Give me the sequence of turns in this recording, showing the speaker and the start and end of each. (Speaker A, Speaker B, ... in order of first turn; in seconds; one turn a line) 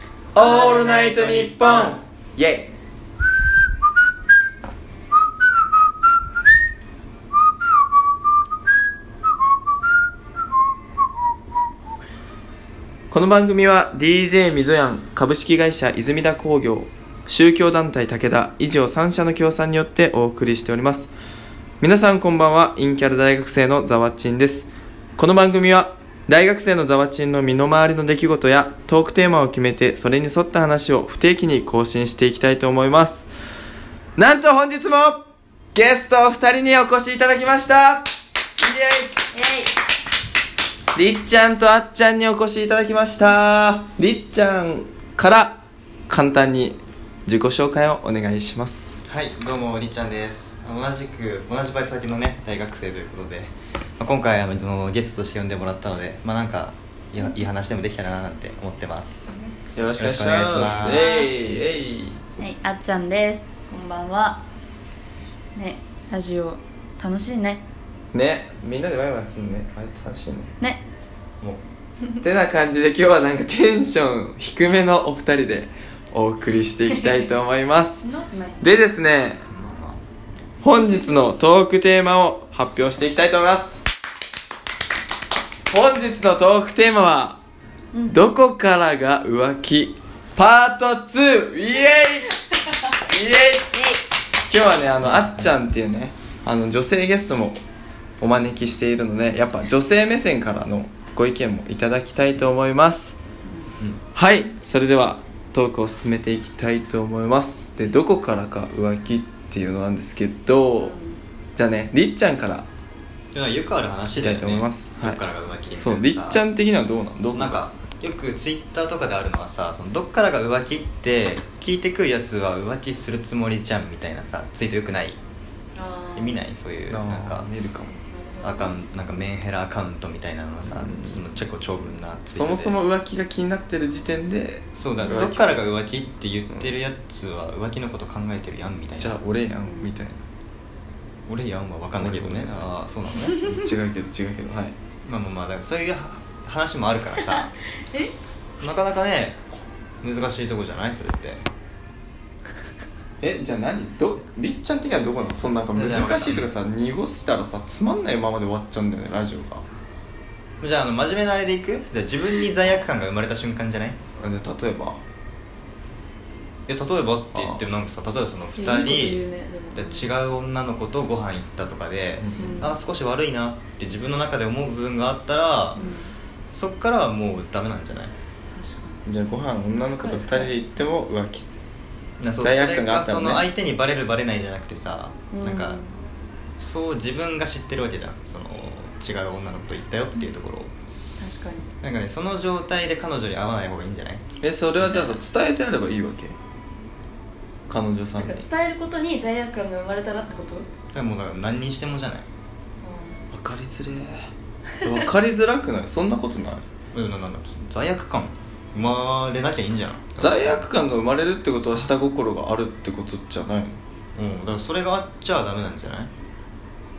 Speaker A: 0.3-2.7
Speaker B: 0.3-2.0
Speaker A: 13.1-21.1
Speaker A: 21.8-33.3
Speaker A: 34.2-35.2
Speaker A: 35.7-38.1
Speaker A: 38.6-39.2
Speaker C: 39.3-39.7
Speaker A: 40.9-49.0
Speaker B: 49.1-59.4
Speaker A: 59.8-62.3
Speaker B: 60.0-61.1
Speaker C: 60.9-61.3
Speaker C: 62.4-64.4
Speaker C: 65.5-67.6
Speaker A: 68.1-70.5
Speaker A: 72.2-78.0
Speaker C: 78.0-78.7
Speaker A: 78.6-79.4
Speaker B: 79.5-80.0
Speaker A: 80.6-83.8
Speaker A: 85.7-87.4
Speaker C: 87.9-88.2
Speaker A: 88.1-92.4
Speaker A: 92.9-93.9
Speaker A: 94.5-97.6
Speaker A: 98.2-103.2
Speaker C: 103.5-103.7
Speaker A: 104.2-111.0
Speaker C: 110.8-111.2
Speaker A: 111.6-112.7
Speaker B: 113.3-116.4
Speaker A: 114.2-115.2
Speaker A: 115.7-117.6
Speaker B: 117.3-125.2
Speaker C: 125.8-126.4
Speaker B: 126.2-127.5
Speaker A: 126.9-128.0
Speaker C: 128.1-128.8
Speaker B: 128.4-132.8
Speaker A: 130.7-131.2
Speaker A: 132.3-135.7
Speaker B: 134.7-139.2
Speaker A: 139.0-140.2
Speaker C: 139.7-139.9
Speaker B: 141.3-143.5
Speaker A: 142.0-142.7
Speaker A: 143.4-144.7
Speaker B: 145.1-147.5
Speaker C: 147.4-148.1
Speaker B: 148.6-149.4
Speaker B: 150.0-151.4
Speaker A: 153.2-159.6
Speaker B: 155.7-156.5
Speaker B: 160.6-164.0
Speaker A: 164.2-165.0
Speaker B: 166.7-175.8
Speaker A: 167.3-167.6
Speaker C: 168.6-170.2
Speaker A: 172.2-172.7
Speaker C: 172.4-172.8
Speaker C: 175.8-176.1
Speaker B: 176.5-178.1
Speaker C: 178.5-179.0
Speaker A: 179.1-181.5
Speaker C: 180.0-180.6
Speaker B: 182.2-185.8
Speaker A: 182.3-183.4
Speaker C: 185.3-185.9
Speaker B: 186.6-190.7
Speaker C: 191.2-191.7
Speaker B: 191.8-194.2
Speaker A: 194.4-196.4
Speaker B: 194.8-195.2
Speaker A: 197.7-198.5
Speaker C: 198.2-200.7
Speaker B: 200.9-202.3
Speaker C: 202.8-203.3
Speaker A: 203.3-204.3
Speaker A: 204.8-206.6
Speaker B: 206.9-210.7
Speaker A: 210.2-213.8
Speaker B: 211.6-211.9
Speaker B: 214.2-216.1